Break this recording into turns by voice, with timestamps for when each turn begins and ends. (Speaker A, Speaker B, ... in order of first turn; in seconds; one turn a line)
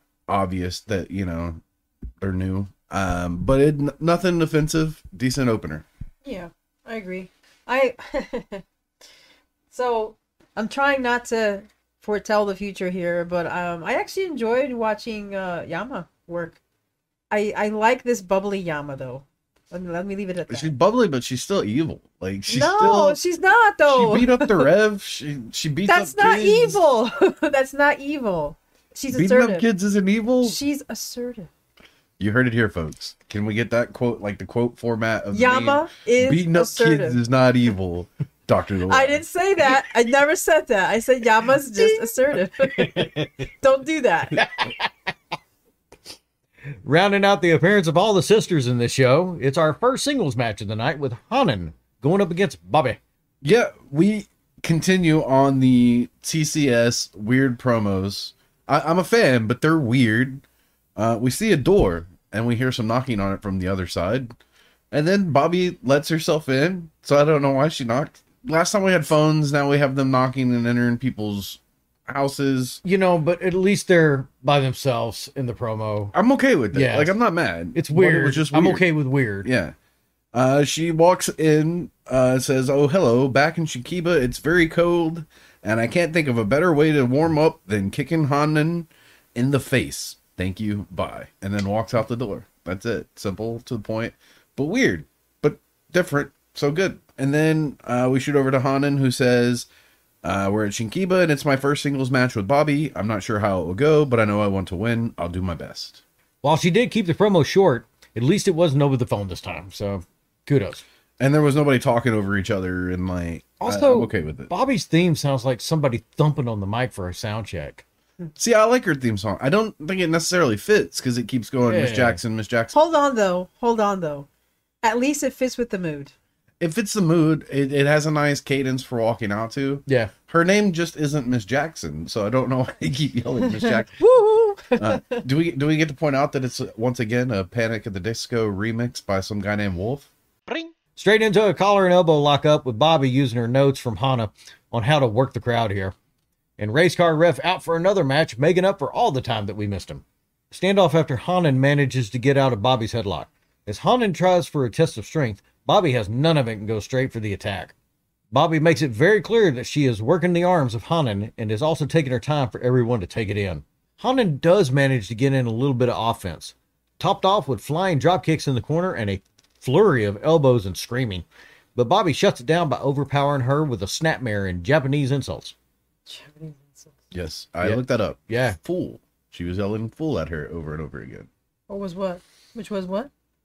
Speaker A: 0.3-1.6
Speaker A: 2.2-5.8
Speaker B: 6.2-8.6
Speaker B: 9.7-16.6
Speaker B: 17.3-20.7
Speaker A: 20.5-23.2
Speaker B: 22.5-24.7
Speaker A: 23.9-26.8
Speaker B: 25.9-29.6
Speaker A: 29.1-30.6
Speaker B: 30.4-31.5
Speaker A: 32.2-39.2
Speaker B: 35.3-37.2
Speaker B: 38.9-44.5
Speaker C: 41.8-43.5
Speaker C: 44.3-44.9
Speaker C: 46.8-53.0
Speaker A: 53.4-60.4
Speaker A: 61.0-64.3
Speaker A: 64.9-72.8
Speaker C: 72.8-76.1
Speaker A: 76.1-78.8
Speaker C: 76.7-77.2
Speaker C: 77.7-79.5
Speaker A: 79.4-79.8
Speaker A: 80.3-99.7
Speaker A: 100.2-106.0
Speaker C: 106.4-110.8
Speaker A: 111.2-114.5
Speaker C: 113.6-117.8
Speaker A: 118.3-122.7
Speaker C: 121.7-122.2
Speaker B: 122.7-124.3
Speaker B: 124.8-126.1
Speaker A: 126.6-133.9
Speaker C: 129.9-130.1
Speaker B: 133.6-135.2
Speaker A: 134.8-140.1
Speaker C: 140.5-145.9
Speaker C: 146.6-157.7
Speaker C: 158.3-175.5
Speaker B: 176.1-177.0
Speaker A: 177.1-181.3
Speaker C: 177.6-178.6
Speaker B: 181.7-183.1